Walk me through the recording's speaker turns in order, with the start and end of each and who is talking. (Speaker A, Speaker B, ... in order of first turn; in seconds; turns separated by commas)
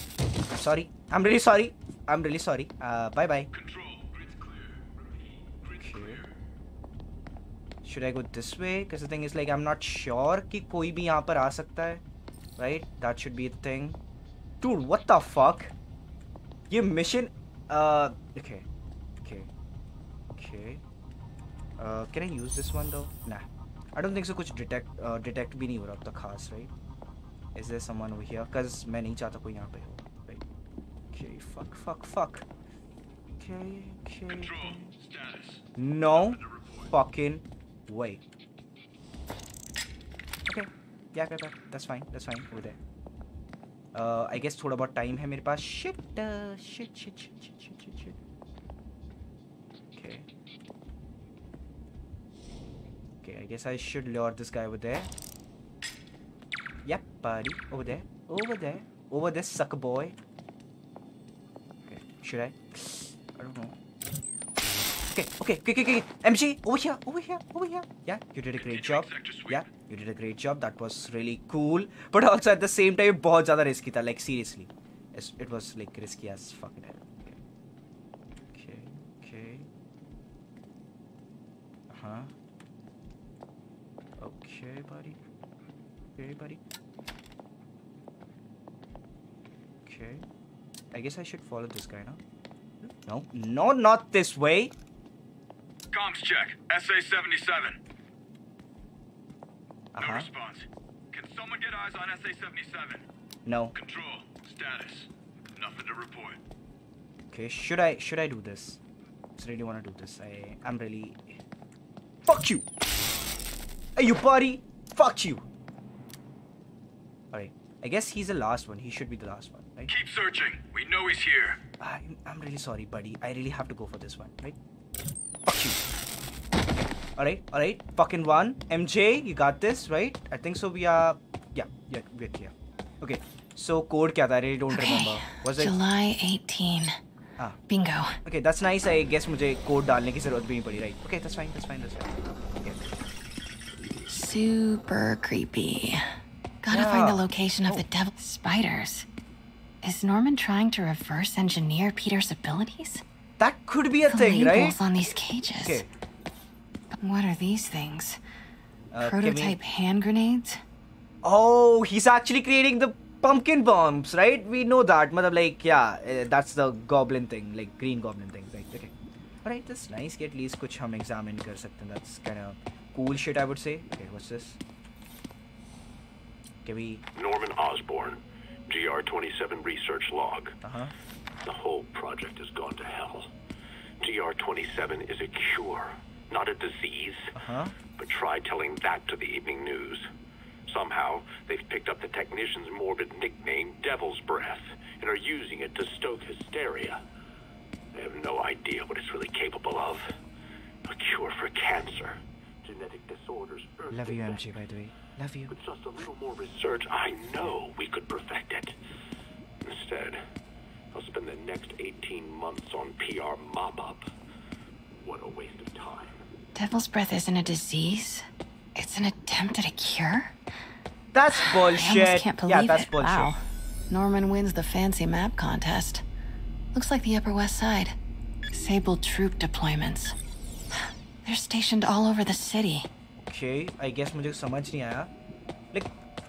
Speaker A: 0.5-3.5, Speaker B: 3.5-4.5, Speaker A: 5.8-6.2, Speaker A: 7.8-12.0, Speaker A: 12.6-14.0, Speaker A: 14.6-15.7, Speaker A: 16.7-18.6, Speaker A: 19.2-19.5, Speaker A: 20.4-20.8, Speaker A: 21.8-26.7, Speaker A: 27.5-30.4, Speaker A: 31.1-32.5, Speaker A: 33.4-34.9, Speaker B: 34.4-35.6, Speaker A: 35.8-38.2, Speaker B: 36.1-36.9, Speaker A: 40.5-42.8, Speaker A: 43.9-48.2, Speaker A: 50.0-50.3, Speaker A: 53.2-55.1, Speaker A: 56.8-60.1, Speaker A: 61.9-63.7, Speaker A: 65.1-77.4, Speaker B: 68.6-69.5, Speaker A: 78.5-79.7, Speaker A: 81.9-82.3, Speaker A: 84.2-85.2, Speaker A: 86.2-86.6, Speaker A: 89.8-90.2, Speaker A: 90.9-92.2, Speaker A: 93.0-94.7, Speaker B: 95.9-97.8, Speaker A: 99.9-100.3, Speaker B: 100.0-103.0, Speaker A: 103.5-103.7, Speaker B: 103.8-106.4, Speaker A: 107.3-108.8, Speaker A: 109.4-111.4, Speaker A: 112.2-112.7, Speaker A: 114.0-115.4, Speaker A: 117.3-119.9, Speaker B: 119.9-121.6, Speaker A: 121.8-124.6, Speaker A: 125.5-125.8, Speaker A: 127.2-135.7, Speaker C: 134.7-136.9, Speaker C: 137.7-138.1, Speaker A: 138.2-142.9, Speaker C: 144.1-146.0, Speaker C: 146.6-149.1, Speaker A: 146.7-147.8, Speaker C: 149.8-153.0, Speaker A: 153.4-154.8, Speaker C: 154.1-155.8, Speaker A: 155.6-155.9, Speaker C: 156.9-158.2, Speaker A: 158.9-159.6, Speaker C: 159.0-160.6, Speaker A: 161.2-168.9, Speaker A: 169.4-174.6, Speaker A: 176.6-177.0, Speaker D: 177.2-180.5, Speaker A: 180.6-180.9, Speaker D: 181.4-183.3, Speaker D: 184.0-187.3, Speaker A: 187.3-187.7, Speaker D: 187.9-190.0, Speaker D: 190.7-197.0, Speaker D: 197.9-200.0, Speaker D: 200.9-204.4, Speaker A: 203.9-205.5, Speaker D: 205.5-208.7, Speaker D: 209.6-210.2, Speaker D: 210.9-214.0, Speaker D: 215.0-216.2, Speaker C: 216.5-220.3, Speaker A: 221.1-223.3, Speaker C: 221.3-226.0, Speaker C: 226.7-227.9, Speaker C: 228.5-230.2, Speaker C: 231.2-232.9, Speaker A: 233.2-235.1